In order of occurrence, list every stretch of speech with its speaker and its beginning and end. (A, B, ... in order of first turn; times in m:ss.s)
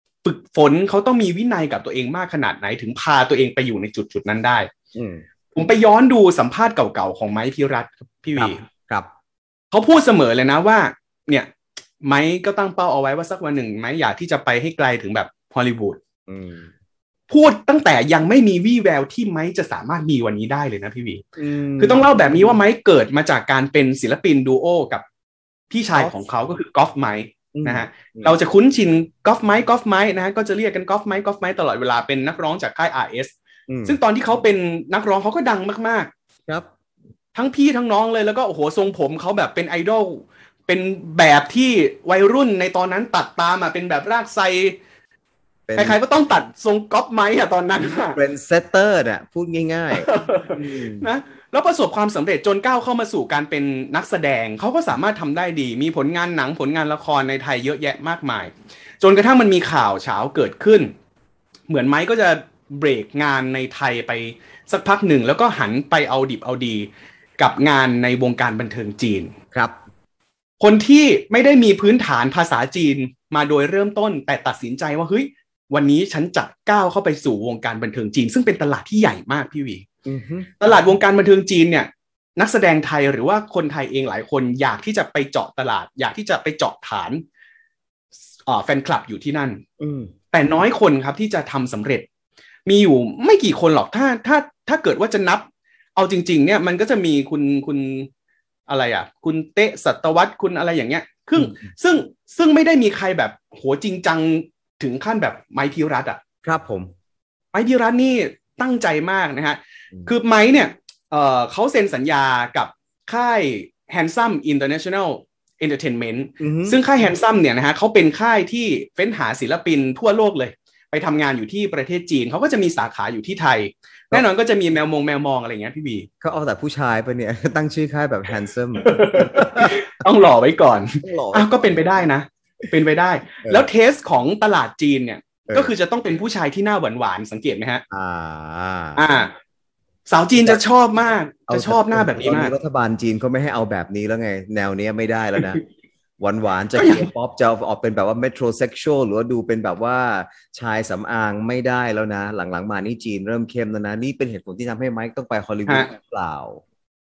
0:00.2-0:04.7 A
0:04.9-0:05.2 B
0:05.5-0:08.6 A
0:08.4-0:09.1 B
0:09.7-0:11.5 A
0:12.0-0:16.0 A
0:16.3-0:16.7 B
0:17.3-0:21.2 A
0:21.4-0:22.6 B
0:21.8-0:25.0 A
0:25.7-0:36.1 A
0:26.0-0:26.2 B
0:27.5-0:28.4 B
0:33.7-0:34.0 B
0:37.4-0:44.8 A
0:45.7-0:46.0 B
0:45.8-0:48.2 A
0:48.1-0:51.1 B
0:50.0-1:00.9 A
1:01.7-1:09.4 A
1:09.5-1:09.8 B
1:10.6-1:19.8 A
1:20.0-1:20.6 B
1:20.6-1:27.2 A
1:28.5-1:29.6 A
1:29.8-1:30.1 B
1:30.3-1:32.1 A
1:32.7-1:38.1 A
1:38.7-1:46.2 A
1:41.4-1:41.7 B
1:46.4-1:46.9 B
1:47.5-2:06.1 A
1:56.4-1:56.8 B
2:06.2-2:09.8 B
2:08.8-2:17.8 A
2:11.0-2:12.0 B
2:15.5-2:15.7 B
2:17.9-2:19.1 B
2:19.0-2:19.3 A
2:20.1-2:22.5 A
2:20.4-2:20.6 B
2:21.5-2:25.6 B
2:26.2-2:36.6 B
2:26.8-2:27.1 A